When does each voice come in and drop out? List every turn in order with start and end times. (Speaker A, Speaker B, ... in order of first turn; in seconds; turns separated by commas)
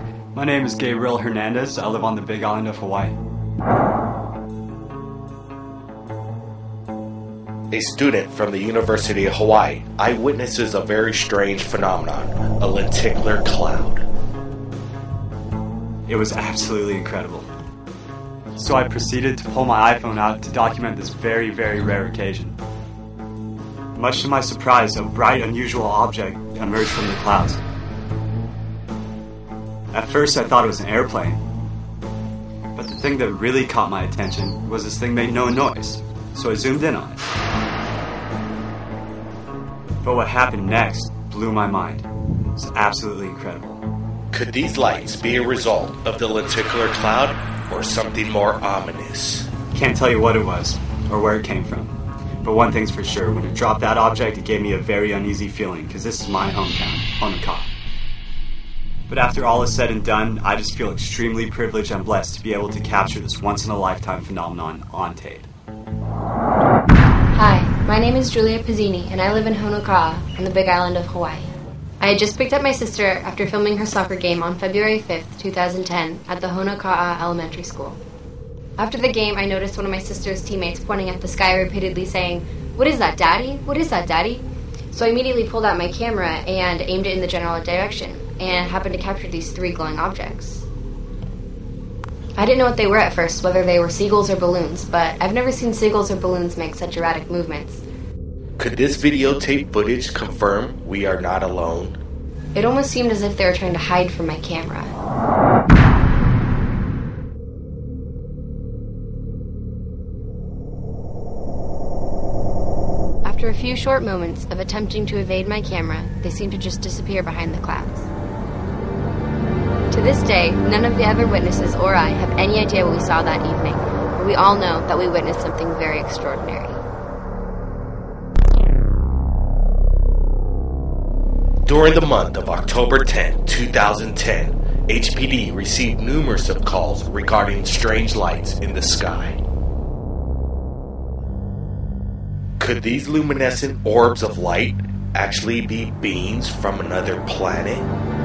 Speaker A: 0.3-3.1, Speaker B: 7.7-14.0, Speaker A: 16.1-17.5, Speaker A: 18.6-22.6, Speaker A: 23.9-27.6, Speaker A: 29.9-31.4, Speaker A: 32.7-37.2, Speaker A: 40.0-43.8, Speaker B: 44.3-49.5, Speaker A: 49.7-57.7, Speaker A: 59.1-65.5, Speaker C: 67.3-78.0, Speaker C: 78.8-90.7, Speaker C: 92.4-97.8, Speaker B: 98.6-102.0, Speaker C: 102.5-104.9, Speaker C: 113.2-118.1, Speaker C: 119.9-126.8, Speaker B: 131.6-139.4, Speaker B: 142.6-147.9